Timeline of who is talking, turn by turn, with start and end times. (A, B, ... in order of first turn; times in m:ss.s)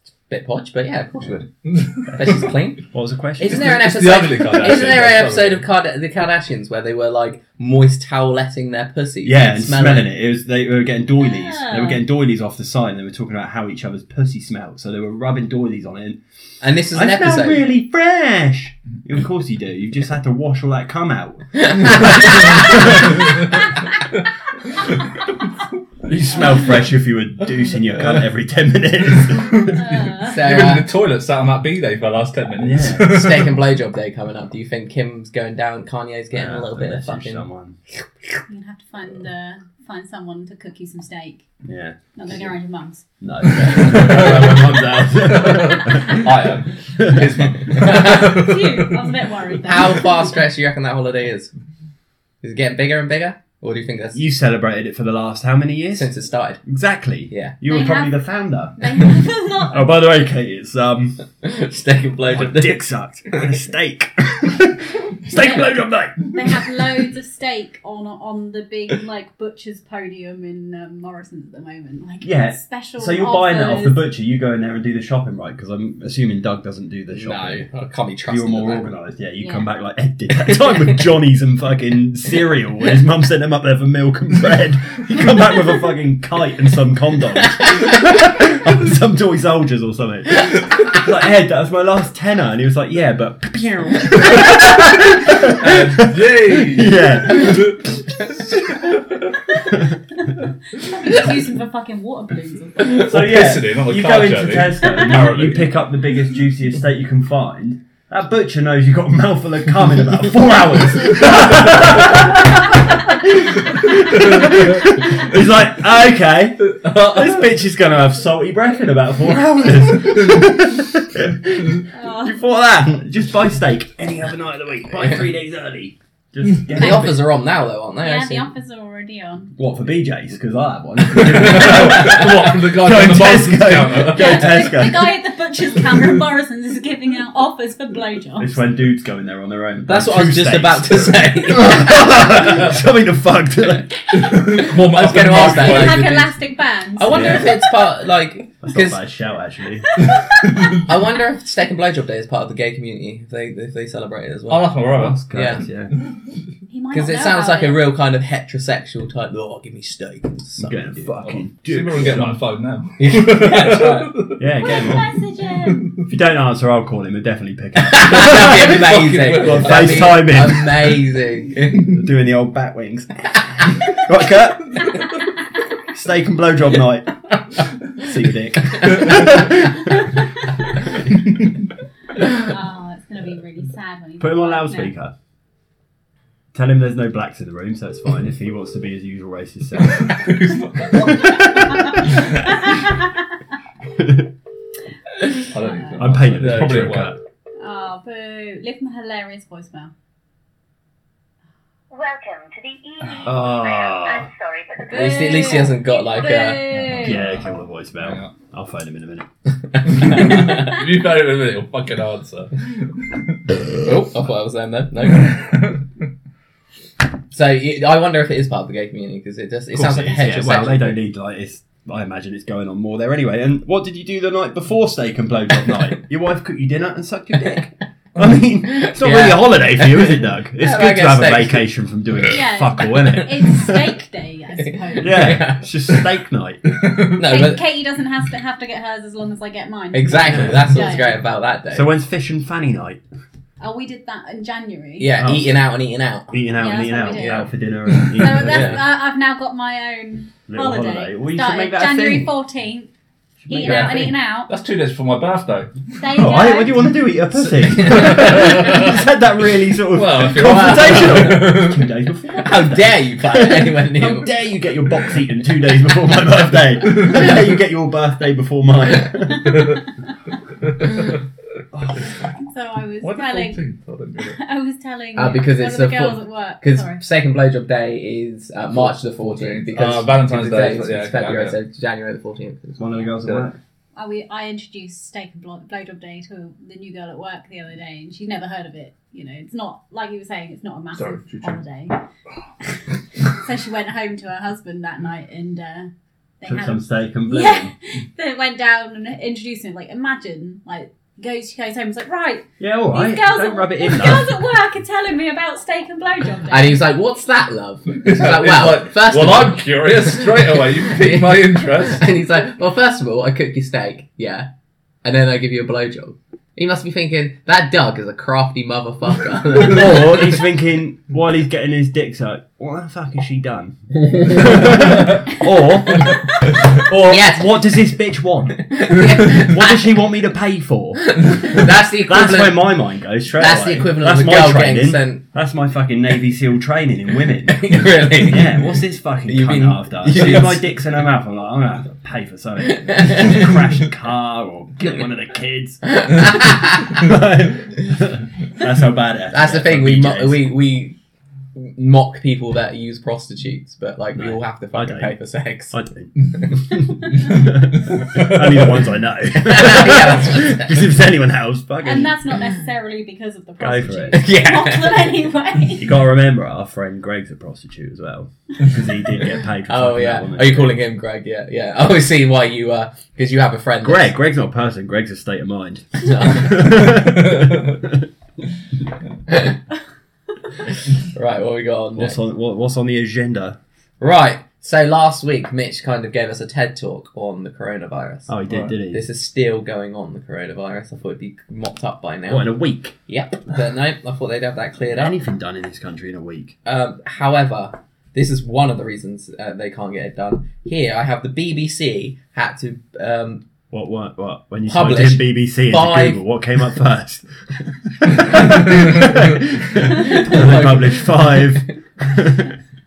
0:00.3-0:01.5 A
0:01.7-0:02.1 B
0:02.1-0:02.8 A
0:02.9-0:03.9 C
0:03.4-0:10.1 A
0:03.5-0:05.6 B
0:04.7-0:05.0 C
0:09.2-0:16.2 C
0:11.2-0:12.0 D
0:16.6-0:17.7 A
0:16.9-0:23.4 C
0:21.6-0:23.1 A
0:22.6-0:23.3 B
0:26.0-0:29.9 C
0:29.7-0:30.4 D
0:30.2-0:30.9 A
0:30.3-0:33.6 B
0:32.6-0:33.4 C
0:33.0-0:37.4 A
0:36.3-0:37.8 C
0:38.5-0:41.5 D
0:41.6-0:42.5 C
0:42.2-0:43.1 D
0:43.2-0:46.4 C
0:43.9-0:44.6 B
0:45.2-0:49.0 B
0:47.0-0:47.8 C
0:47.7-0:48.3 A
0:47.9-0:50.2 D
0:49.6-0:51.5 A
0:52.4-0:54.2 A
0:54.1-0:56.1 C
0:55.9-0:56.6 A
0:56.6-0:59.1 C
0:57.3-0:57.6 A
0:57.7-0:58.1 D
0:58.8-0:59.9 D
0:59.7-1:01.2 C
1:01.4-1:03.5 A
1:02.3-1:06.8 C
1:06.3-1:14.0 D
1:12.2-1:17.6 C
1:17.1-1:18.9 A
1:18.3-1:38.0 C
1:19.4-1:19.7 D
1:34.3-1:38.0 B
1:39.6-1:40.0 C
1:40.7-1:43.0 D
1:42.8-1:45.8 B
1:42.9-2:07.2 C
1:53.8-1:54.9 B
1:56.7-1:57.5 B
2:00.1-2:00.5 B
2:01.9-2:02.4 D
2:06.8-2:08.5 A
2:08.0-2:09.5 D
2:09.6-2:15.2 C
2:11.1-2:14.7 B
2:14.1-2:18.6 D
2:18.4-2:24.2 C
2:19.9-2:22.3 A
2:24.1-2:26.1 B
2:24.6-2:26.3 A
2:25.4-2:27.7 D
2:26.9-2:29.0 A
2:27.1-2:27.5 C
2:28.6-2:30.0 C
2:30.2-2:30.8 B
2:30.8-2:34.7 A
2:34.5-2:35.2 B
2:34.9-2:35.9 C
2:35.3-2:35.6 A
2:36.7-2:37.8 D
2:36.9-2:41.1 A
2:40.6-2:42.4 C
2:41.2-2:45.0 B
2:43.0-2:44.1 A
2:44.4-2:45.1 C
2:44.6-2:46.0 D
2:45.6-2:45.9 B
2:46.0-2:51.0 C
2:47.8-2:51.9 A
2:48.3-2:50.4 B
2:51.7-2:55.0 C
2:55.9-2:57.2 C
2:58.0-3:00.1 C
3:00.9-3:01.4 C
3:02.3-3:04.9 D
3:04.2-3:05.1 C
3:06.5-3:12.1 C
3:09.9-3:11.6 B
3:12.1-3:12.4 B
3:12.5-3:12.9 D
3:13.9-3:14.3 C
3:15.4-3:17.1 B
3:15.6-3:16.0 D
3:16.0-3:17.2 C
3:17.6-3:19.9 D
3:21.9-3:25.1 E
3:23.2-3:24.3 C
3:24.8-3:27.2 D
3:24.9-3:26.6 A
3:26.7-3:28.3 B
3:26.8-3:29.3 C
3:29.7-3:30.8 A
3:29.9-3:33.4 B
3:33.8-3:35.4 A
3:35.2-3:35.8 B
3:37.3-3:41.0 A
3:39.7-3:53.9 C
3:48.8-3:51.6 A
3:52.3-3:55.3 D
3:54.7-3:56.0 A
3:55.0-3:56.6 C
3:57.1-3:57.6 A
3:57.2-4:01.2 D
3:59.9-4:01.9 A
4:00.2-4:00.8 C
4:01.7-4:03.0 C
4:03.6-4:05.1 D
4:05.0-4:06.4 A
4:05.2-4:05.6 C
4:06.3-4:08.8 C
4:06.6-4:07.5 D
4:07.1-4:07.5 A
4:08.1-4:12.9 D
4:08.3-4:08.8 A
4:10.5-4:12.3 C
4:13.4-4:14.1 C
4:13.5-4:14.5 D
4:13.6-4:15.9 B
4:16.0-4:16.9 D
4:16.1-4:29.8 C
4:17.5-4:19.0 B
4:19.8-4:21.9 B
4:20.4-4:21.6 A
4:22.4-4:24.3 A
4:26.8-4:27.2 B
4:29.5-4:29.8 B
4:30.6-4:31.2 B
4:31.7-4:32.0 C
4:32.4-4:33.6 D
4:33.0-4:34.4 B
4:34.2-4:37.0 D
4:35.2-4:43.1 A
4:38.7-4:41.6 B
4:42.8-4:43.6 C
4:43.2-4:43.5 B
4:44.0-4:52.0 D
4:50.9-4:51.6 B
4:53.2-5:06.8 D
4:56.4-4:57.7 C
5:02.6-5:04.3 C
5:06.5-5:14.5 A
5:08.0-5:12.0 B
5:15.0-5:20.4 A
5:19.5-5:31.2 C
5:27.0-5:27.5 A
5:28.7-5:29.8 A
5:31.0-5:32.8 A
5:32.0-5:50.4 C
5:33.4-5:35.2 A
5:37.5-5:40.7 A
5:40.2-5:40.5 B
5:42.8-5:43.5 A
5:45.9-5:47.0 A
5:49.3-5:51.0 A
5:51.6-5:55.8 A
5:54.2-5:55.1 C
5:55.7-6:02.2 C
5:58.0-5:58.6 B
5:59.3-6:00.9 A
6:01.8-6:05.9 D
6:03.6-6:04.3 C
6:04.1-6:05.2 A
6:05.8-6:10.8 C
6:09.7-6:14.1 A
6:13.8-6:18.1 C
6:16.0-6:17.0 A
6:17.0-6:17.8 B
6:19.3-6:19.6 A
6:20.6-6:22.2 A
6:22.0-6:23.6 C
6:24.0-6:32.5 A
6:28.3-6:29.0 C
6:32.3-6:32.9 C
6:33.1-6:35.2 A
6:34.9-6:36.6 C
6:36.6-6:43.4 A
6:43.7-6:52.6 C
6:44.7-6:46.2 A
6:48.7-6:49.1 B
6:49.8-6:51.5 A